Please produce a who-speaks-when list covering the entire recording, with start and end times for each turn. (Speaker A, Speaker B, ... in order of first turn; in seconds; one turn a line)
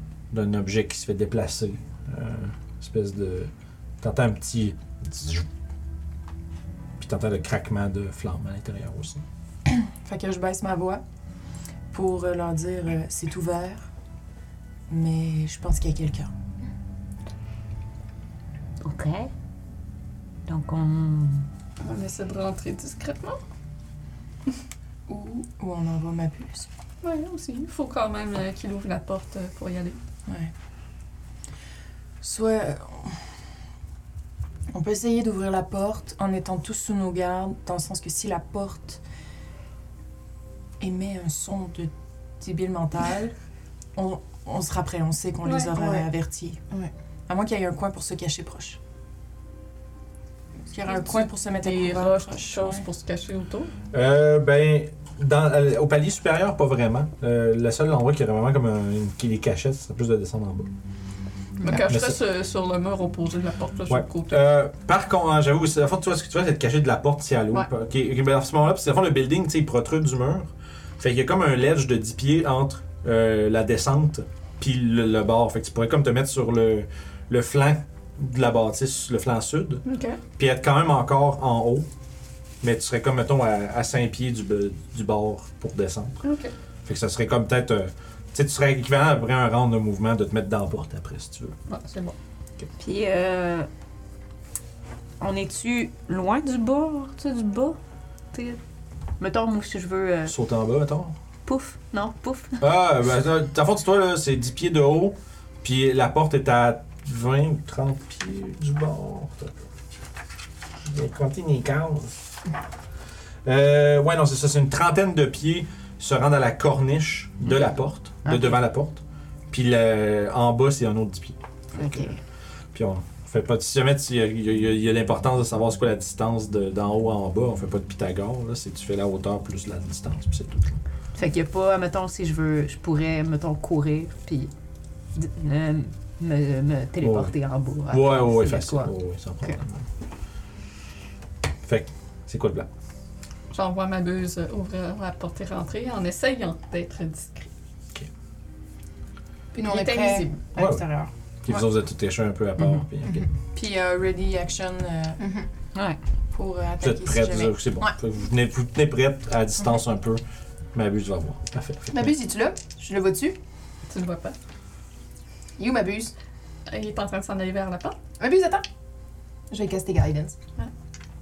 Speaker A: 0.3-3.5
Speaker A: 4.0-5.5
Speaker A: 7.0-9.2
Speaker B: 9.7-11.0
Speaker B: 11.9-13.9
Speaker B: 14.9-16.3
Speaker C: 18.8-19.3
Speaker C: 20.5-21.5
Speaker D: 21.8-23.4
Speaker B: 25.1-26.7
Speaker D: 27.0-30.0
Speaker B: 32.2-33.1
Speaker B: 34.7-39.0
Speaker B: 40.8-43.3
Speaker B: 44.0-48.8
Speaker D: 45.4-46.1
Speaker B: 50.7-52.8
Speaker D: 50.9-53.7
Speaker A: 53.9-60.7
Speaker D: 61.6-64.4
Speaker A: 61.9-62.2
Speaker A: 63.9-79.8
Speaker D: 79.9-80.2
Speaker A: 80.4-81.9
Speaker A: 82.6-86.2
Speaker D: 86.2-86.5
Speaker A: 86.9-91.6
Speaker D: 91.7-92.1
Speaker C: 92.8-93.7
Speaker C: 95.2-97.8
Speaker C: 98.3-98.6
Speaker C: 99.2-100.4
Speaker A: 100.3-101.2
Speaker C: 101.5-102.6
Speaker A: 102.6-109.7
Speaker A: 110.9-112.2
Speaker A: 113.5-122.1
Speaker C: 121.8-122.2
Speaker A: 122.7-130.8
Speaker C: 131.2-134.5
Speaker C: 135.2-139.6
Speaker A: 137.0-137.3
Speaker A: 137.9-139.8
Speaker A: 141.6-142.7
Speaker D: 143.5-147.5
Speaker D: 149.5-150.4
Speaker B: 149.5-151.7
Speaker A: 150.6-150.8
Speaker A: 151.4-153.2
Speaker B: 153.1-155.5
Speaker B: 156.3-157.9
Speaker A: 156.8-160.2
Speaker A: 160.7-162.2
Speaker B: 161.9-163.4
Speaker D: 163.9-164.4
Speaker B: 165.6-166.1
Speaker D: 166.7-168.0
Speaker B: 168.2-168.6
Speaker B: 169.5-170.4